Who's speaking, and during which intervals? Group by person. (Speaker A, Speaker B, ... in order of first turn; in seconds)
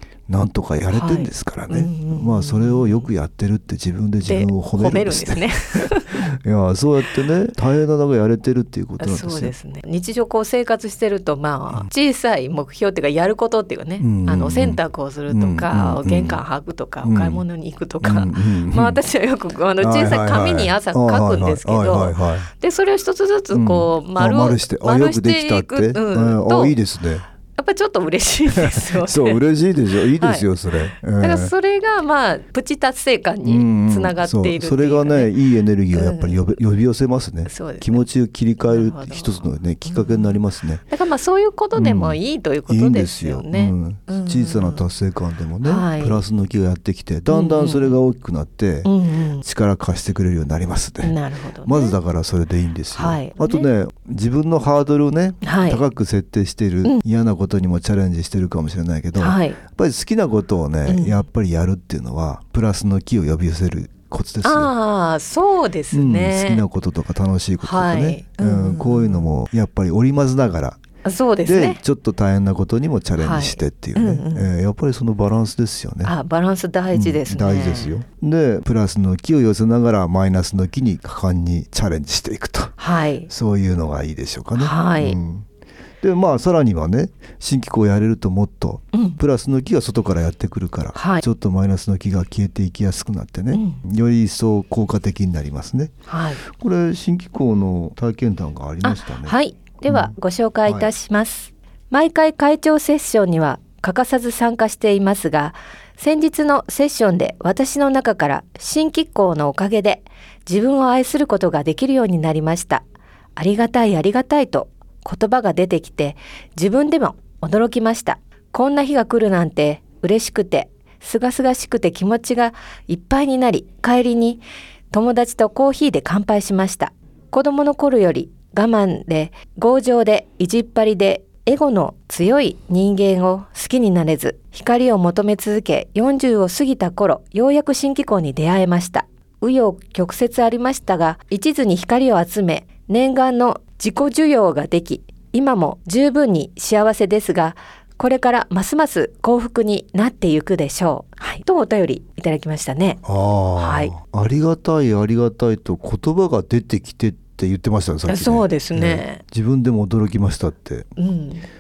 Speaker A: 0.3-9.5, 14.0-16.4, 17.0-17.4, 18.0-19.0, 19.8-22.5, 23.5-27.2, 28.6-31.5, 33.4-40.8, 41.8-48.9, 49.4-64.7, 65.9-70.8, 71.4-76.2, 76.9-82.8, 83.3-85.5, 86.0-95.9, 96.5-99.4, 99.9-100.1, 100.7-100.9, 153.1-160.9
Speaker B: 0.9-3.1, 4.2-6.2, 9.0-26.8, 27.6-29.4, 30.2-35.3, 35.9-36.5, 37.5-38.0, 38.6-40.4, 40.9-44.9, 45.6-46.2, 47.3-48.0, 48.8-49.4, 51.0-52.0, 52.9-53.7, 55.4-55.8, 59.2-59.6, 60.9-61.2, 64.4-66.6, 67.6-69.3, 71.0-71.8, 73.2-74.5, 76.0-78.0, 82.8-83.3, 84.6-85.2, 88.9-89.2, 90.9-91.2, 93.5-93.8, 96.1-96.4, 98.8-112.8, 113.3-153.0, 153.6-153.9, 158.1-159.2, 161.0-161.4